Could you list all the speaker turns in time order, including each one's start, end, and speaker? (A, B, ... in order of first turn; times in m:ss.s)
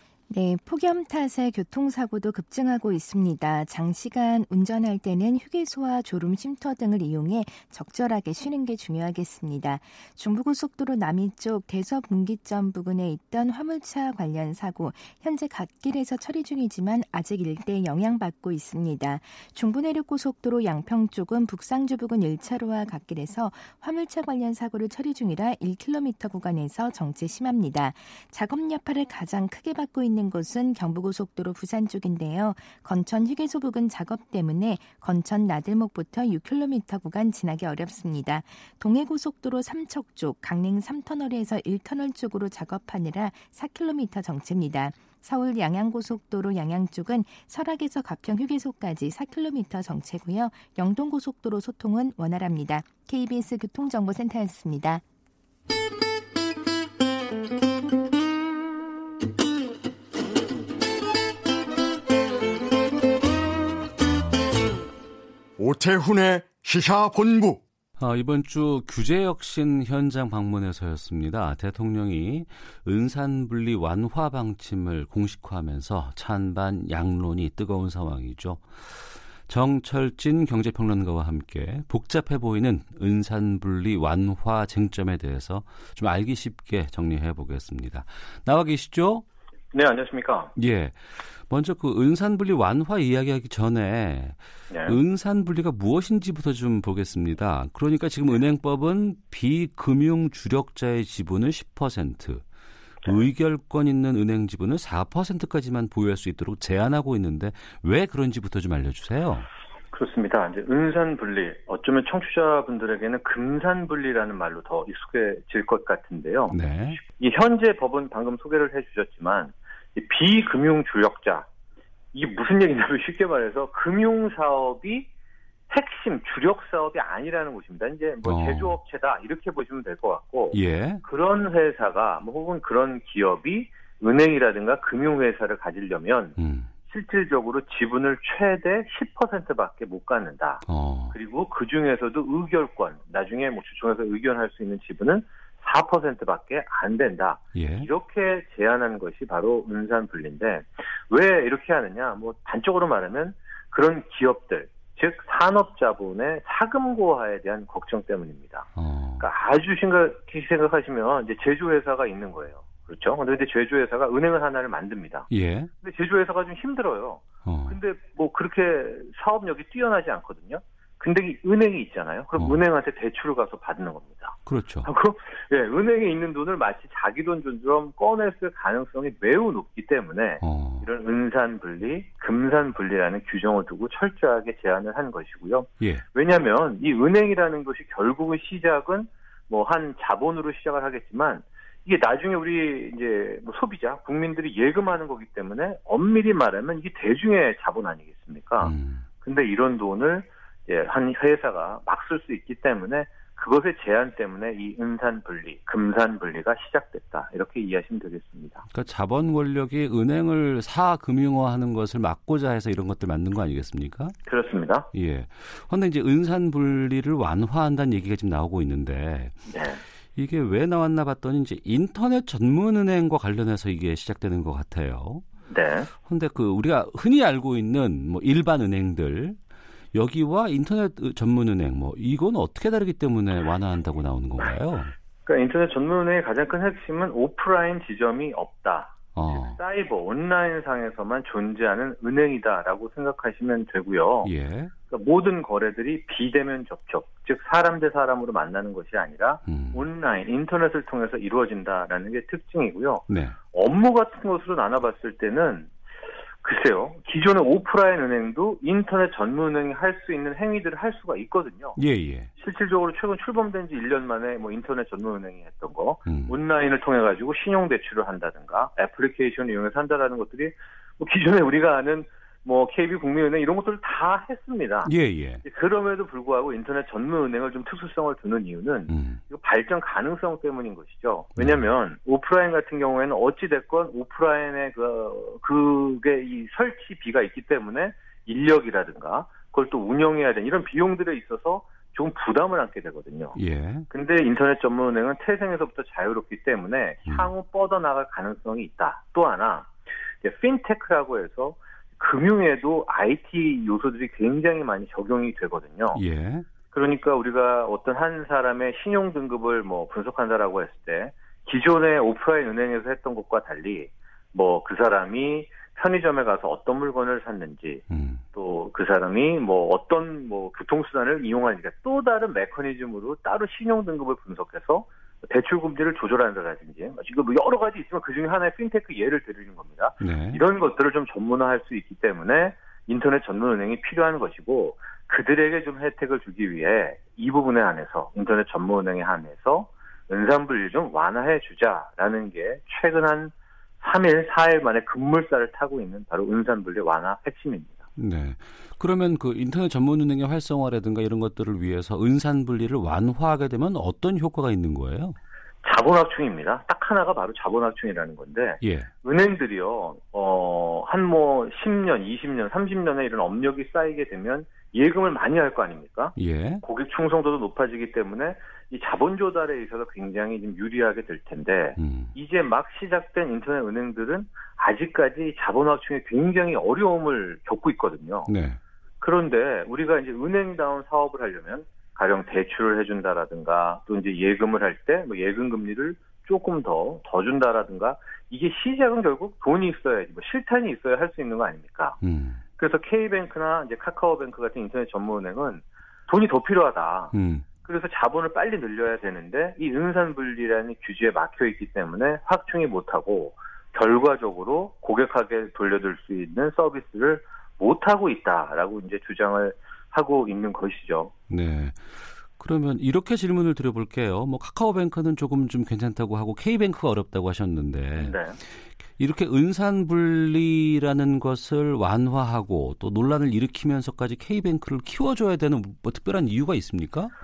0:00.3-0:55.0 A
1:05.6-1:07.6 B
1:08.0-1:29.2 C
1:29.7-1:30.5 D
1:30.6-1:42.4 C
1:34.7-1:35.0 D
1:43.0-1:49.5 C
1:49.9-2:01.5 D
1:56.5-1:57.0 C
2:02.1-2:05.1 D
2:05.7-2:16.4 D
2:08.2-2:08.8 C
2:10.5-2:11.0 C
2:16.4-2:16.7 C
2:16.9-2:38.7 D
2:20.7-2:21.2 C
2:27.5-2:27.9 C
2:38.8-2:39.3 C
2:39.2-2:45.3 D
2:45.3-2:45.7 C
2:45.8-3:28.6 D
2:47.4-2:47.8 C
2:54.5-2:54.9 C
3:00.4-3:00.9 C
3:18.6-3:19.0 C
3:28.7-3:34.2 C
3:34.3-3:34.9 D
3:34.9-3:39.5 C
3:39.5-3:39.8 D
3:40.1-3:45.2 C
3:45.5-3:45.9 D
3:46.0-3:49.4 C
3:49.9-3:54.9 C
3:55.3-4:04.3 D
3:59.2-3:59.6 C
4:04.2-4:04.7 C
4:04.9-4:15.7 D
4:09.5-4:09.8 C
4:13.1-4:13.4 C
4:16.4-4:21.8 D
4:21.8-4:22.3 C
4:22.4-4:34.9 D
4:26.1-4:26.4 C
4:34.8-4:35.4 C
4:35.4-4:53.4 D
4:38.9-4:39.2 C
4:41.4-4:41.7 C
4:53.4-4:53.9 C
4:53.9-4:59.7 D
4:57.1-4:57.3 C
5:00.2-5:06.0 D
5:05.9-5:06.4 C
5:06.7-5:47.8 D
5:17.9-5:18.2 C
5:30.0-5:30.4 C
5:48.0-5:55.2 C
5:55.6-6:18.3 D
5:58.6-5:58.9 C
6:06.2-6:06.6 C
6:11.8-6:12.1 C
6:18.3-6:18.6 C
6:19.0-6:32.0 D
6:32.0-6:32.4 C
6:32.6-6:51.1 D
6:37.1-6:37.5 C
6:51.3-6:58.2 C
6:58.0-6:58.4 D
6:59.0-7:07.1 C